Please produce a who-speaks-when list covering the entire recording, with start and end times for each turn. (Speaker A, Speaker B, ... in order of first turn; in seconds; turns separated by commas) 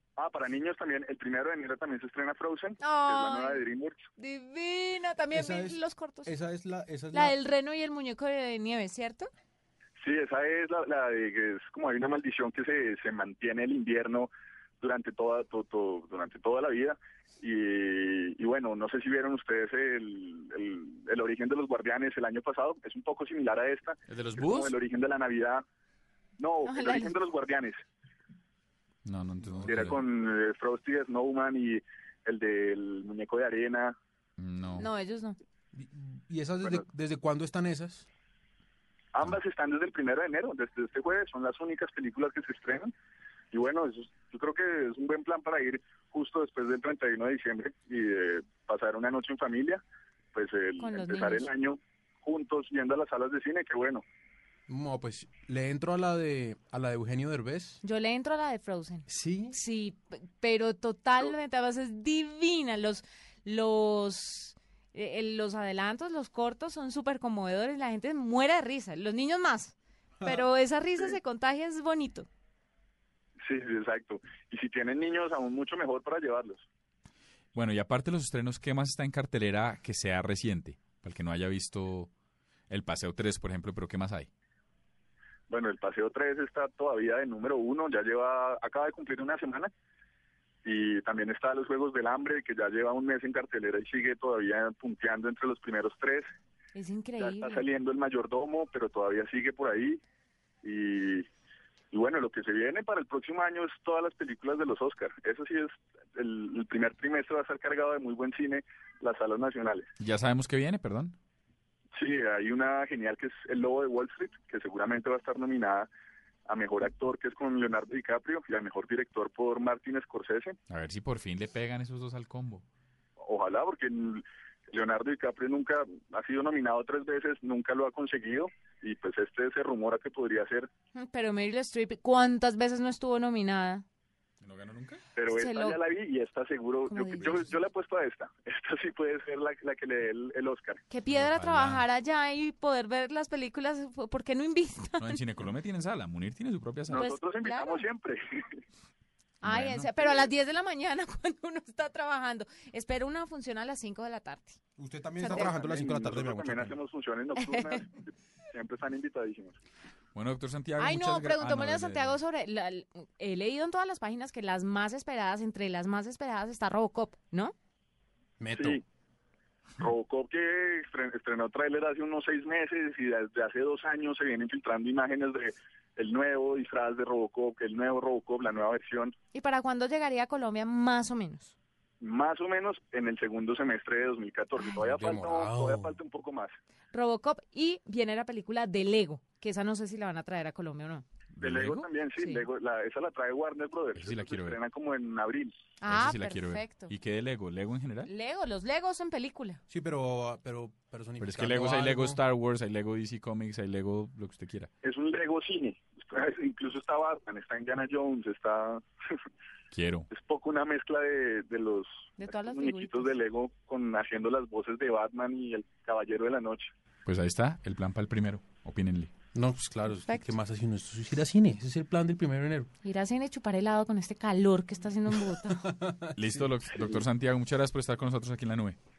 Speaker A: 0.2-4.1, Speaker B: 2.8-3.6, Speaker B: 4.2-6.3, Speaker C: 5.3-7.3, Speaker B: 7.1-9.3, Speaker A: 10.0-14.3, Speaker A: 14.8-25.6, Speaker D: 24.1-24.8, Speaker A: 26.4-27.8, Speaker B: 26.6-27.1, Speaker D: 29.1-30.0, Speaker A: 29.6-34.0, Speaker D: 34.4-34.9, Speaker B: 34.8-35.4, Speaker C: 35.7-38.1, Speaker A: 39.1-42.9, Speaker A: 43.5-49.8, Speaker A: 50.3-54.0, Speaker B: 50.8-51.5, Speaker C: 54.7-57.8, Speaker B: 57.8-72.3, Speaker C: 59.1-59.6, Speaker A: 73.4-76.7, Speaker D: 77.5-82.1, Speaker D: 82.7-84.3, Speaker A: 85.5-89.7, Speaker A: 90.6-96.3, Speaker B: 96.7-97.6, Speaker A: 97.2-100.0, Speaker A: 100.6-101.3, Speaker A: 101.9-109.9, Speaker D: 110.0-111.2, Speaker A: 111.9-115.9, Speaker A: 116.5-120.6, Speaker D: 120.7-122.6, Speaker A: 123.2-130.7, Speaker B: 130.9-133.8, Speaker D: 134.4-135.0, Speaker A: 135.1-140.8, Speaker B: 135.3-135.8, Speaker B: 136.9-137.4, Speaker B: 140.9-145.2, Speaker D: 141.1-141.8, Speaker D: 145.0-147.1, Speaker A: 146.9-148.6, Speaker B: 146.9-147.8, Speaker D: 149.4-149.9, Speaker B: 149.4-154.6, Speaker A: 150.0-150.3, Speaker C: 154.8-156.8, Speaker B: 155.2-155.6, Speaker A: 155.3-159.6, Speaker B: 157.3-157.8, Speaker D: 160.1-162.2, Speaker B: 160.8-167.5, Speaker C: 168.4-168.8, Speaker A: 168.5-168.8, Speaker A: 169.8-179.1, Speaker B: 179.3-181.5, Speaker A: 182.0-186.5, Speaker C: 184.8-186.0, Speaker B: 186.9-191.0, Speaker D: 191.3-191.9, Speaker A: 191.4-195.5, Speaker B: 192.2-192.4, Speaker D: 193.9-194.6, Speaker B: 195.8-196.9, Speaker D: 195.9-198.1, Speaker B: 198.1-199.6, Speaker C: 199.7-202.2, Speaker D: 201.2-204.7, Speaker A: 204.8-209.1, Speaker D: 209.7-210.1, Speaker A: 210.1-216.7, Speaker B: 212.2-213.2, Speaker D: 217.1-219.1, Speaker C: 219.3-222.7, Speaker B: 220.1-220.3, Speaker B: 222.8-225.7, Speaker C: 225.5-227.0, Speaker D: 226.2-228.8